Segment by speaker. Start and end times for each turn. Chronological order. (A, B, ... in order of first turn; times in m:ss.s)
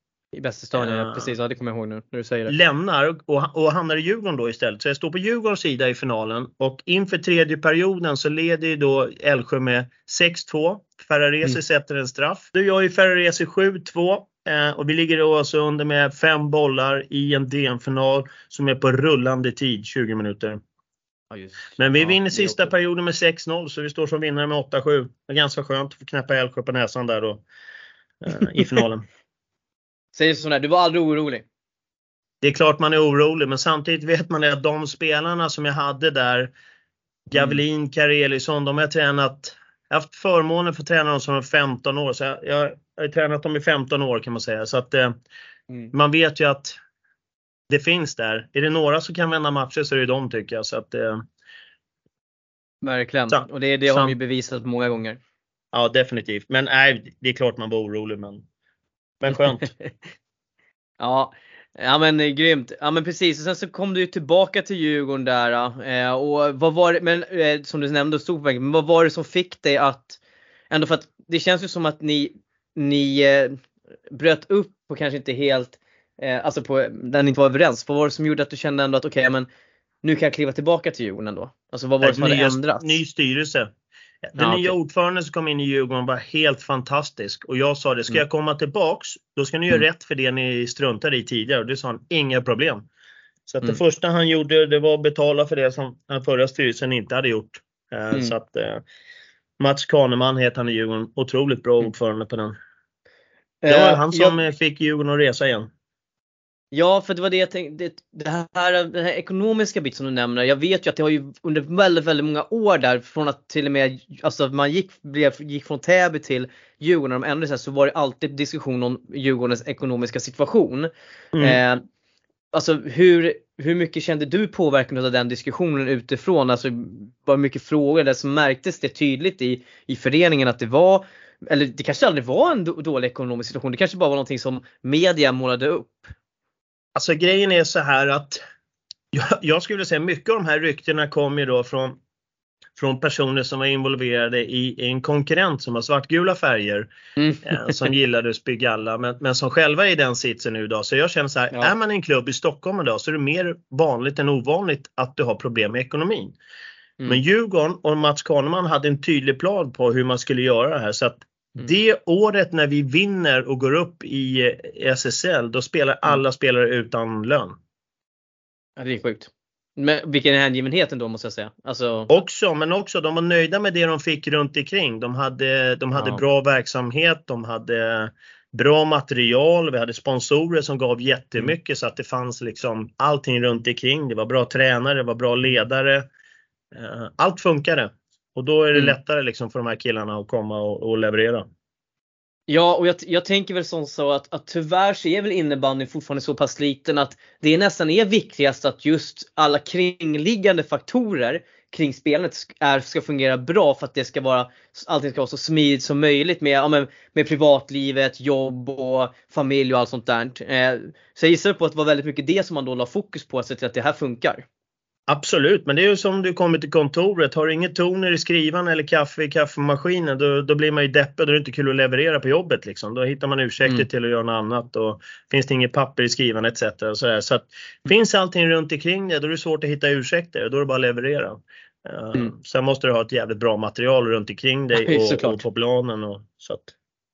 0:00.3-0:02.5 A
0:00.8-0:01.3 B
0:02.5-0:20.6 B
0:21.3-0:22.7 A
0:21.8-0:27.4 B
0:28.2-0:29.0 B
0:30.2-0:31.4 A
0:32.4-0:36.5 B
0:37.3-0:45.1 B
0:45.9-0:46.8 B
0:47.7-0:51.2 B
0:52.8-0:55.2 A
0:53.3-0:54.2 B
0:55.7-0:58.4 B
0:59.2-0:59.7 B
0:59.5-0:59.9 A
1:01.0-1:10.2 A
1:10.7-1:13.6 A
1:14.1-1:19.5 A
1:20.0-1:23.0 A
1:22.0-1:23.7 B
1:24.2-1:32.9 B
1:24.4-1:24.7 A
1:33.5-1:38.8 B
1:39.6-1:42.5 B
1:43.6-1:44.4 A
1:43.7-1:45.7 B
1:46.7-2:00.9 A
2:01.3-2:01.6 B
2:01.4-2:01.8 A
2:02.5-2:16.1 A
2:16.9-2:18.4 B
2:19.1-2:22.0 B
2:22.8-2:26.9 B
2:27.2-2:27.9 A
2:27.4-2:36.4 B
2:37.1-2:47.6 B
2:48.8-2:52.1 A
2:52.1-3:06.0 B
2:56.0-2:56.2 A
3:06.7-3:11.4 B
3:12.5-3:34.4 A
3:35.1-3:56.7 B
3:54.7-3:55.4 A